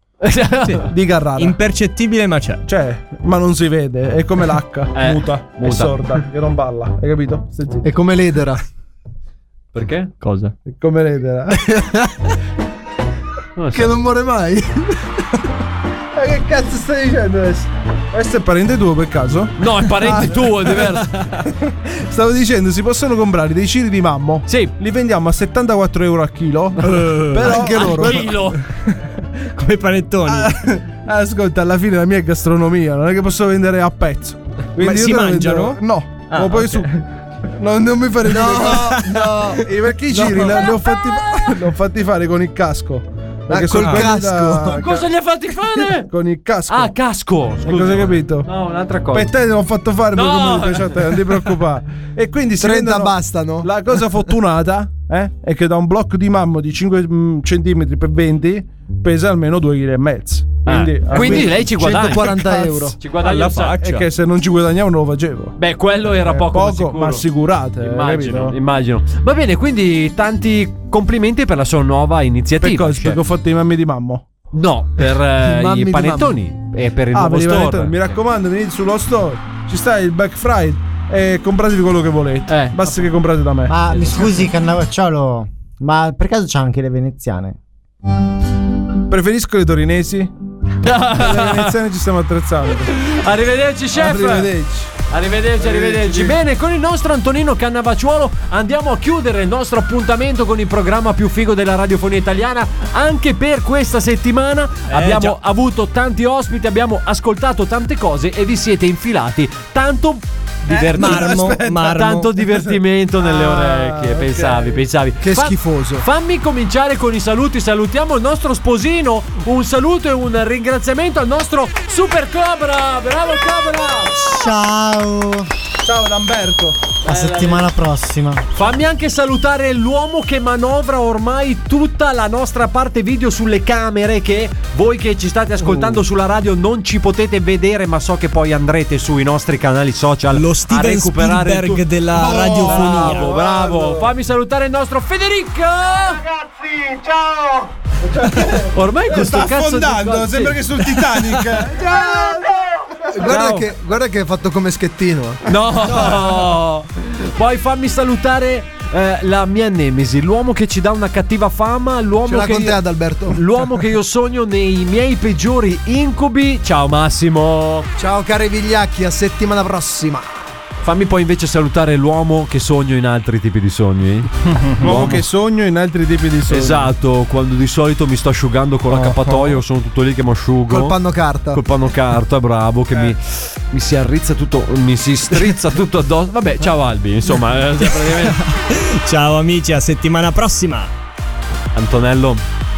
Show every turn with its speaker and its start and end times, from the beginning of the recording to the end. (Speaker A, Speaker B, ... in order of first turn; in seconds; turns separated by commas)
Speaker A: 0.2-0.9, Speaker B: 0.8-1.6, Speaker C: 1.4-2.6, Speaker B: 2.7-7.9, Speaker A: 4.9-6.2, Speaker D: 7.8-8.6, Speaker A: 9.7-10.1, Speaker C: 10.2-10.5, Speaker B: 10.7-11.9, Speaker D: 11.6-12.1, Speaker A: 13.6-14.0, Speaker D: 13.7-15.0, Speaker B: 16.1-21.0, Speaker A: 19.6-21.1, Speaker C: 21.2-21.4, Speaker B: 21.8-28.3, Speaker A: 24.5-24.7, Speaker C: 26.8-27.8, Speaker D: 27.4-28.3, Speaker A: 27.5-28.6, Speaker C: 28.6-30.6, Speaker B: 30.3-45.1, Speaker C: 34.8-36.9, Speaker D: 38.2-40.6, Speaker C: 38.8-39.1, Speaker D: 43.5-44.8, Speaker C: 43.8-44.1, Speaker A: 44.7-46.1, Speaker B: 46.1-46.9, Speaker A: 46.7-49.3, Speaker B: 47.6-48.5, Speaker B: 49.1-62.5, Speaker A: 50.1-51.3, Speaker D: 52.6-54.0, Speaker A: 60.6-63.8, Speaker D: 61.1-63.0, Speaker C: 63.2-64.0, Speaker B: 63.6-65.5, Speaker A: 65.6-67.2, Speaker B: 66.1-68.5, Speaker A: 67.8-73.2, Speaker B: 72.6-74.3, Speaker A: 74.5-78.2, Speaker D: 75.4-76.4, Speaker B: 77.1-83.8, Speaker A: 82.5-83.0, Speaker E: 83.7-87.6, Speaker A: 83.9-84.1, Speaker B: 89.1-90.3, Speaker A: 90.8-91.7, Speaker B: 91.1-93.2, Speaker A: 92.9-94.5, Speaker B: 93.9-95.0, Speaker A: 95.1-124.1, Speaker B: 95.6-96.4, Speaker C: 104.9-105.3, Speaker B: 110.7-111.8, Speaker C: 110.9-112.3, Speaker B: 112.4-114.8, Speaker D: 115.2-116.0, Speaker E: 124.1-125.5, Speaker B: 125.8-126.8, Speaker E: 127.0-128.4, Speaker A: 127.0-127.7, Speaker A: 128.5-146.2, Speaker C: 135.7-136.0, Speaker C: 140.3-143.3, Speaker B: 142.1-144.1, Speaker B: 146.4-147.3, Speaker B: 148.0-153.5, Speaker A: 148.7-150.6, Speaker D: 153.1-155.4, Speaker A: 153.3-153.7, Speaker A: 155.4-167.9, Speaker D: 162.2-163.4, Speaker D: 168.0-170.4, Speaker A: 170.8-175.2, Speaker B: 174.5-176.9, Speaker A: 176.5-181.0, Speaker B: 178.9-179.6, Speaker D: 180.7-181.6, Speaker A: 181.5-188.4, Speaker C: 188.0-190.9, Speaker A: 191.7-192.4